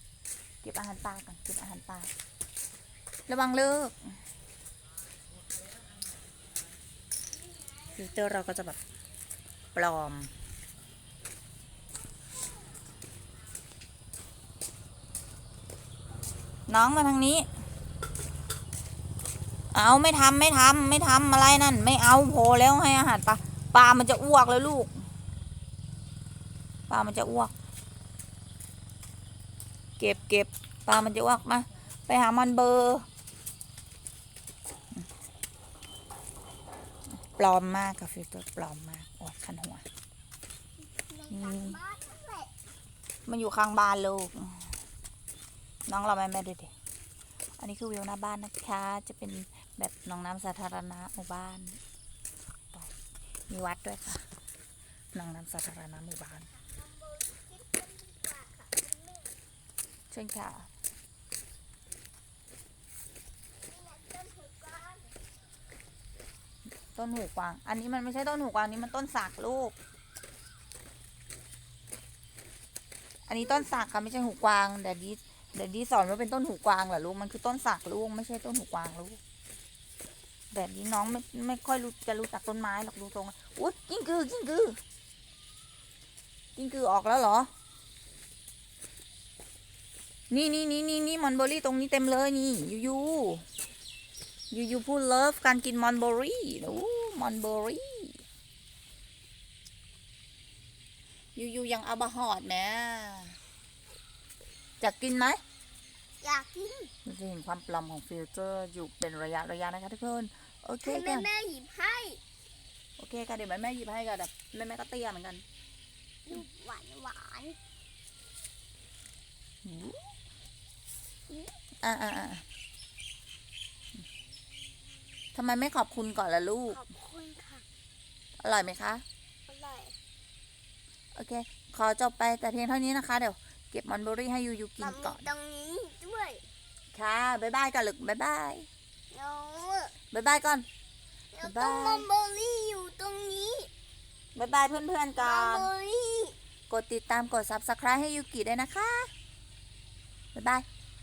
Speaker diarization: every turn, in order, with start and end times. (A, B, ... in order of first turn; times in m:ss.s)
0:00.6-0:02.1 A
0:03.3-0:04.2 A
0:07.4-0:08.4 B
0:08.0-0:08.8 A
0:09.8-0:10.3 A
0:16.7-0:17.5 A
0:19.7-0:25.1 A
0:26.9-0:27.5 A
0:30.0-0:33.1 A
0:37.1-0:39.8 A
0:40.9-0:42.5 B
0:41.3-0:41.8 A
0:43.3-0:44.7 A
0:45.9-0:46.7 A
0:47.6-0:51.8 A
0:53.5-0:54.2 A
0:55.1-0:56.5 A
0:56.5-0:59.4 B
1:00.1-1:00.7 A
1:03.6-1:05.2 B
1:07.0-1:09.8 A
1:13.3-1:19.2 A
1:20.5-1:24.8 A
1:26.6-1:27.5 A
1:30.3-1:33.4 A
1:34.5-1:38.2 A
1:41.4-1:43.4 A
1:44.8-1:45.4 A
1:46.2-1:46.9 B
1:47.0-1:51.3 A
1:50.8-1:52.2 B
1:53.0-1:55.4 A
1:56.3-1:57.6 B
1:59.6-2:00.0 A
2:01.8-2:02.4 A
2:05.4-2:06.8 A
2:06.7-2:07.6 B
2:08.4-2:09.0 A
2:09.5-2:10.0 B
2:11.2-2:15.2 A
2:14.8-2:16.4 B
2:16.9-2:18.7 A
2:19.1-2:20.0 B
2:20.1-2:20.7 A
2:21.3-2:23.7 B
2:21.4-2:22.1 A
2:24.4-2:25.7 A
2:25.2-2:26.4 B
2:26.7-2:29.1 A
2:30.4-2:30.7 A